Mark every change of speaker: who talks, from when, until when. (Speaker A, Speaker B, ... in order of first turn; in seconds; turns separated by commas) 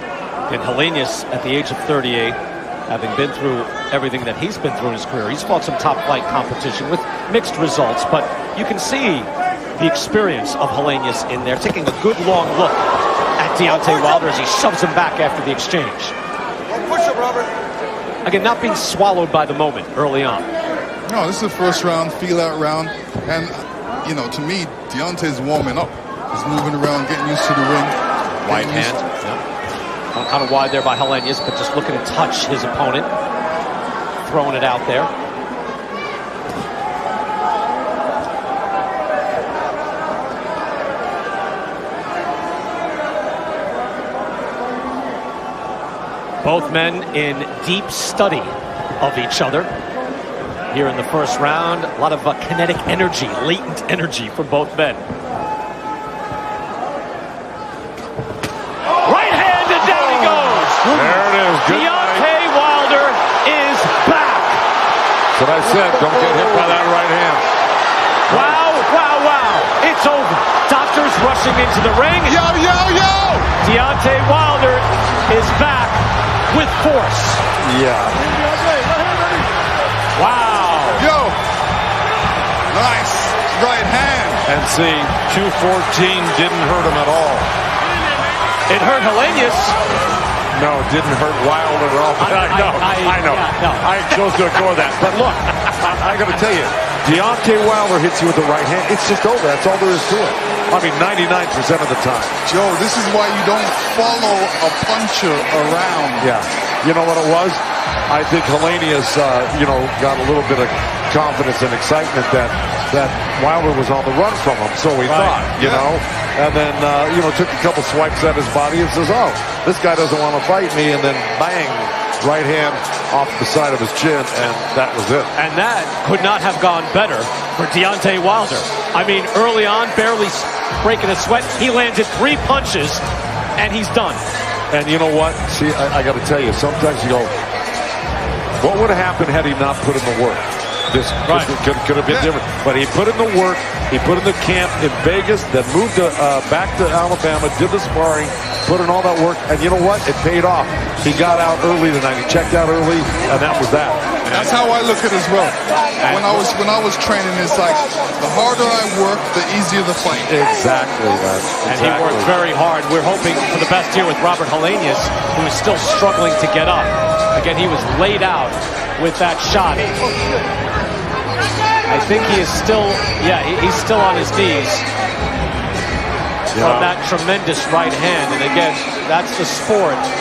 Speaker A: 0.5-2.4, Speaker A: 2.9-16.1, Speaker A: 18.2-20.5, Speaker B: 21.1-23.5, Speaker B: 24.0-28.9, Speaker A: 28.4-29.4, Speaker A: 30.1-33.1, Speaker A: 34.2-35.1, Speaker A: 46.4-49.7, Speaker A: 50.7-55.0, Speaker A: 59.0-64.6, Speaker C: 60.8-62.3, Speaker C: 65.3-67.4, Speaker C: 68.3-68.6, Speaker A: 68.3-72.4, Speaker B: 72.2-73.5, Speaker A: 73.6-77.4, Speaker C: 77.6-78.3, Speaker A: 80.1-81.0, Speaker B: 81.0-81.4, Speaker B: 82.7-84.4, Speaker C: 84.4-87.5, Speaker A: 88.7-89.8, Speaker C: 90.5-102.4, Speaker A: 92.2-94.2, Speaker B: 102.5-106.3, Speaker C: 106.2-125.3, Speaker A: 115.0-115.5, Speaker B: 115.5-115.9, Speaker A: 125.3-133.0, Speaker A: 133.6-134.2, Speaker C: 134.7-137.3, Speaker C: 138.6-154.2, Speaker A: 141.3-141.5, Speaker B: 142.1-142.3, Speaker A: 154.2-154.5, Speaker B: 154.3-160.3, Speaker A: 156.0-156.4, Speaker C: 160.2-162.3, Speaker A: 161.7-170.0, Speaker A: 171.9-174.8, Speaker C: 176.5-176.9, Speaker A: 176.6-180.1